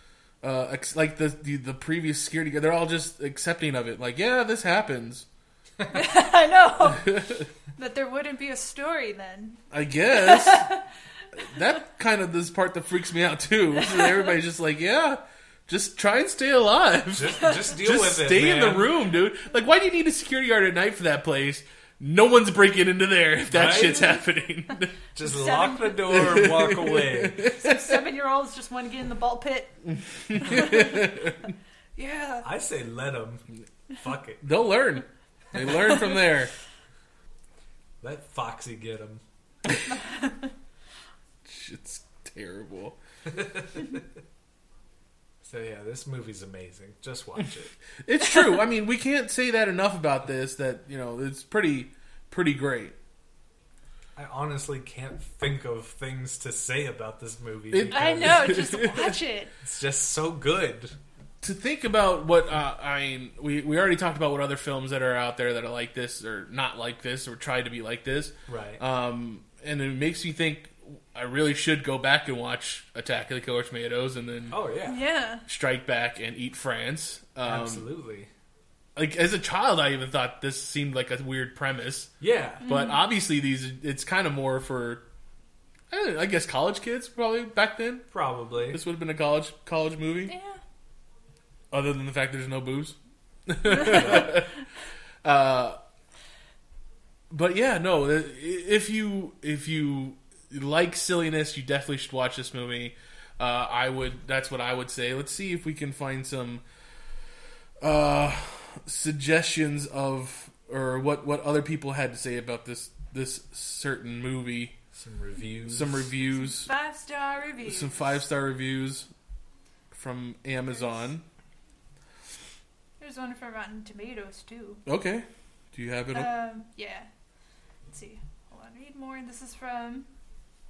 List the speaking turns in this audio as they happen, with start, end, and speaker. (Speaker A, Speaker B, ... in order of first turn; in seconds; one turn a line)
Speaker A: 0.4-5.2
Speaker B: 5.9-9.6
Speaker A: 7.1-7.4
Speaker A: 9.7-10.7
Speaker B: 10.1-10.8
Speaker A: 11.4-24.9
Speaker B: 13.8-14.1
Speaker C: 17.1-18.9
Speaker C: 23.5-24.1
Speaker C: 25.1-27.4
Speaker B: 25.2-26.2
Speaker A: 26.1-27.9
Speaker B: 27.4-29.8
Speaker B: 30.3-31.3
Speaker A: 30.3-31.3
Speaker B: 31.9-32.5
Speaker C: 32.4-33.4
Speaker C: 34.0-34.4
Speaker A: 34.4-36.5
Speaker C: 38.0-39.2
Speaker B: 39.9-40.3
Speaker A: 41.4-43.0
Speaker C: 43.3-44.0
Speaker C: 45.4-47.7
Speaker A: 48.0-53.0
Speaker C: 54.1-58.7
Speaker A: 57.7-59.1
Speaker B: 57.9-59.5
Speaker C: 59.6-61.0
Speaker A: 61.4-74.6
Speaker C: 68.5-68.8
Speaker C: 74.5-75.0
Speaker B: 74.9-75.4
Speaker A: 75.5-77.9
Speaker C: 77.4-78.3
Speaker A: 79.0-82.1
Speaker C: 82.2-82.6
Speaker A: 82.6-85.0
Speaker B: 82.6-83.0
Speaker A: 85.9-88.1
Speaker C: 88.1-88.8
Speaker A: 88.7-90.3
Speaker B: 90.3-90.6
Speaker A: 91.7-93.0
Speaker A: 93.5-94.5
Speaker A: 95.2-95.8
Speaker A: 97.3-106.6
Speaker A: 107.8-114.8
Speaker C: 114.9-116.0
Speaker A: 115.6-116.7
Speaker B: 116.3-118.0
Speaker A: 117.6-119.1
Speaker A: 119.9-121.2
Speaker B: 123.0-124.8
Speaker A: 124.8-126.3
Speaker B: 126.1-127.1
Speaker B: 127.9-130.1